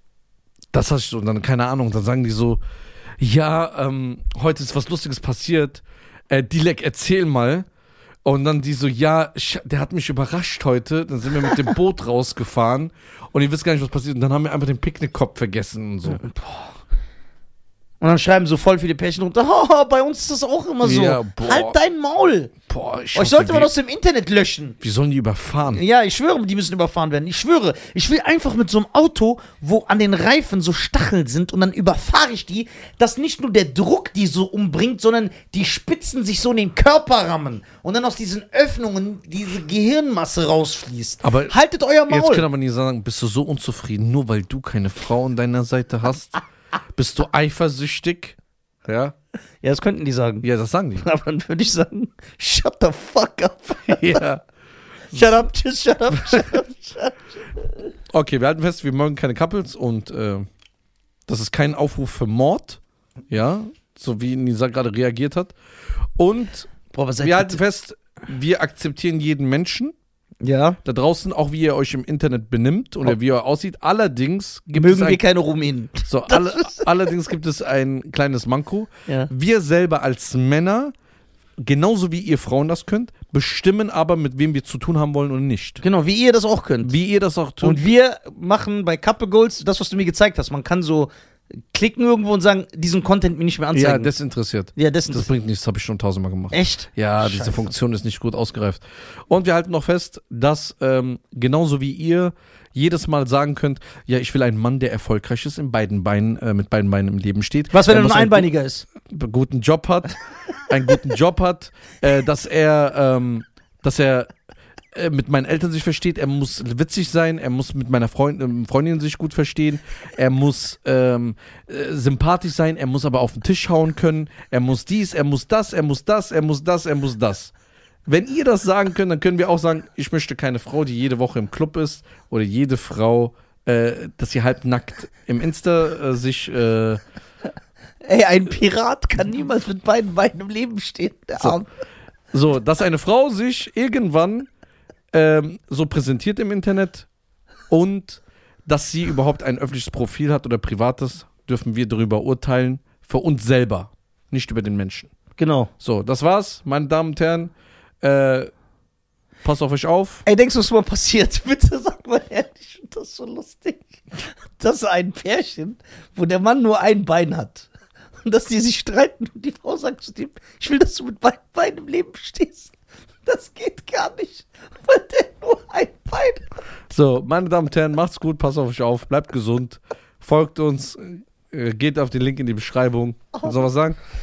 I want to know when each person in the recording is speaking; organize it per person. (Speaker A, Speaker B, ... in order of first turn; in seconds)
Speaker A: 0.7-2.6, 3.2-7.7, 8.2-16.2, 20.8-21.8, 22.7-23.7, 24.8-25.8, 41.2-41.5, 42.1-46.4, 46.9-49.1, 50.4-51.0, 53.9-54.4, 58.1-60.5, 61.3-65.5, 66.2-69.9, 70.8-75.2, 76.0-80.9, 81.6-85.8, 86.8-87.9, 93.7-110.2, 110.7-114.3, 114.9-127.5, 128.1-137.0, 142.3-144.5, 145.1-147.1, 147.7-155.1, 155.8-158.5, 159.4-160.2, 176.9-184.0
Speaker B: 16.1-16.7, 18.0-22.5, 23.1-24.8, 25.7-42.4, 49.6-50.4, 51.0-54.2, 55.1-57.6, 66.9-67.6, 70.4-70.8, 74.7-77.1, 85.8-86.9, 87.6-91.1, 91.7-94.1, 94.8-95.3, 96.5-97.7, 107.7-108.8, 138.0-141.7, 155.4-155.7, 160.2-167.7, 168.2-172.7, 173.2-176.4